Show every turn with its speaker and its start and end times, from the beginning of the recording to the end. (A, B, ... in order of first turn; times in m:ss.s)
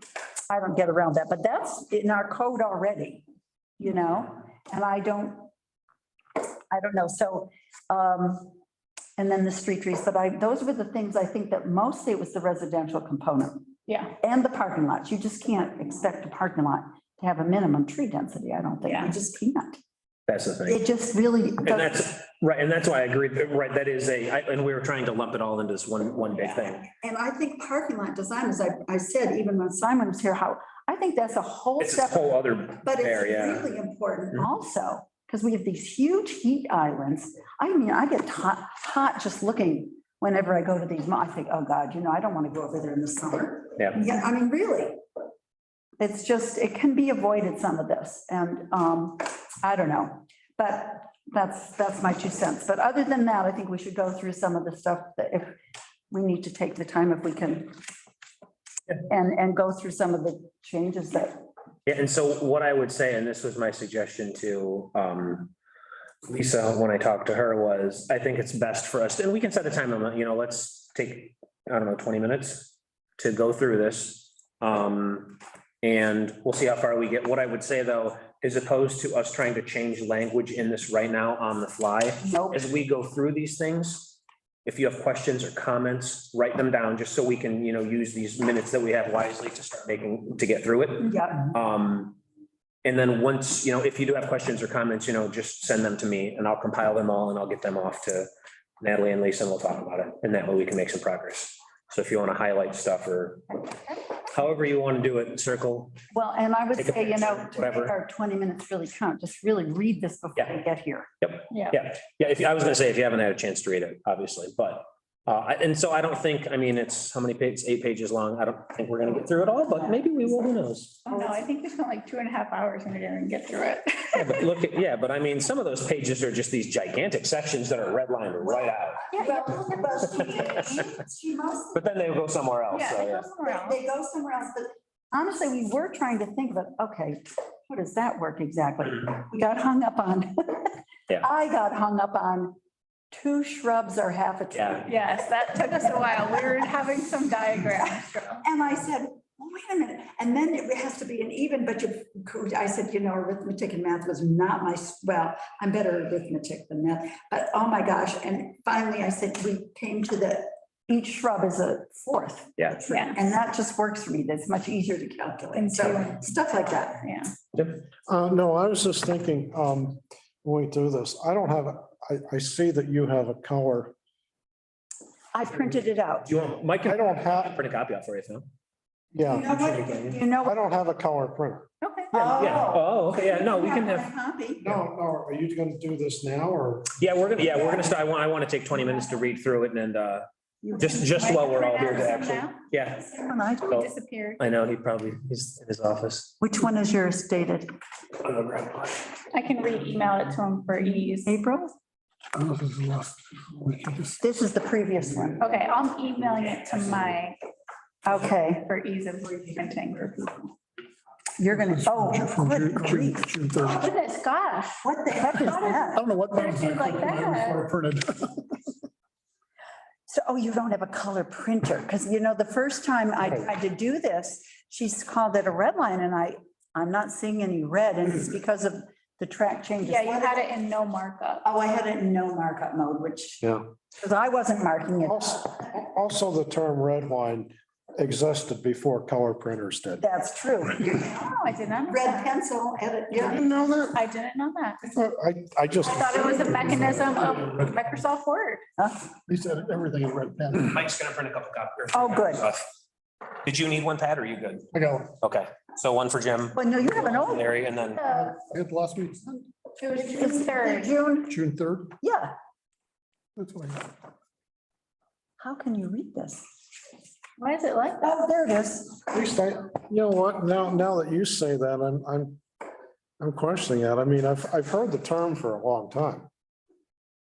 0:00.5-0:03.2 A
0:03.8-0:05.5 A
0:06.7-0:08.6 A
0:09.2-0:19.8 A
0:13.9-0:14.1 B
0:18.8-0:19.1 B
0:20.3-0:20.8 C
0:20.6-0:22.1 A
0:21.6-0:26.9 C
0:26.8-0:45.0 A
0:31.8-0:33.7 C
0:46.0-0:55.6 A
0:56.1-0:57.8 A
0:59.1-1:01.4 A
1:01.8-1:05.5 C
1:06.3-1:32.2 C
1:22.2-1:22.6 A
1:31.0-1:31.6 A
1:32.8-1:38.3 C
1:38.8-1:43.6 C
1:44.3-1:46.0 C
1:46.1-1:51.1 A
1:46.7-1:47.9 C
1:51.2-2:01.1 C
1:51.5-1:51.8 B
2:01.0-2:04.5 B
2:04.1-2:09.1 C
2:08.5-2:11.9 A
2:09.1-2:09.8 B
2:10.0-2:10.9 C
2:11.7-2:13.2 C
2:12.7-2:13.8 B
2:13.4-2:22.6 A
2:23.1-2:24.9 A
2:24.5-2:24.8 C
2:24.8-2:28.4 B
2:28.4-2:47.1 A
2:42.8-2:43.2 B
2:45.5-2:46.3 B
2:47.0-2:47.3 B
2:47.5-2:47.8 C
2:48.1-2:53.9 D
2:55.3-2:56.3 A
2:56.2-2:58.5 C
2:56.8-2:57.6 D
2:59.1-3:01.7 D
2:59.2-3:00.7 A
3:01.8-3:02.1 B
3:02.1-3:04.7 A
3:02.1-3:04.1 C
3:04.6-3:06.9 D
3:07.0-3:10.2 C
3:10.8-3:12.6 B
3:10.8-3:16.4 C
3:13.1-3:13.8 A
3:13.7-3:14.6 B
3:16.4-3:17.7 A
3:18.2-3:19.1 C
3:19.3-3:21.3 B
3:21.2-3:21.7 A
3:22.4-3:24.1 E
3:24.2-3:25.4 A
3:25.4-3:27.4 B
3:28.0-3:28.7 A
3:28.6-3:30.5 B
3:31.4-3:33.3 A
3:31.8-3:33.7 E
3:33.6-3:37.6 B
3:34.8-3:36.1 A
3:36.0-3:38.6 E
3:40.1-3:50.4 A
3:49.8-3:51.4 B
3:51.4-3:53.4 A
3:54.0-3:55.6 A
3:55.0-4:00.0 D
4:00.0-4:01.2 A
4:01.0-4:02.3 B
4:01.9-4:03.4 A
4:03.3-4:04.0 D
4:03.4-4:04.8 B
4:04.8-4:07.1 D
4:05.8-4:08.6 B
4:09.3-4:10.7 E
4:10.6-4:12.6 C
4:11.9-4:12.5 A
4:13.4-4:18.0 C
4:14.7-4:15.2 E
4:16.5-4:17.6 A
4:17.9-4:18.4 B
4:18.4-4:19.4 E
4:19.8-4:20.9 B
4:20.0-4:21.4 A
4:21.3-4:21.9 E
4:22.0-4:22.3 A
4:23.4-4:23.9 E
4:25.4-4:26.5 A
4:27.4-4:28.1 B
4:28.0-4:29.0 A
4:29.1-4:32.4 D
4:33.2-4:36.3 D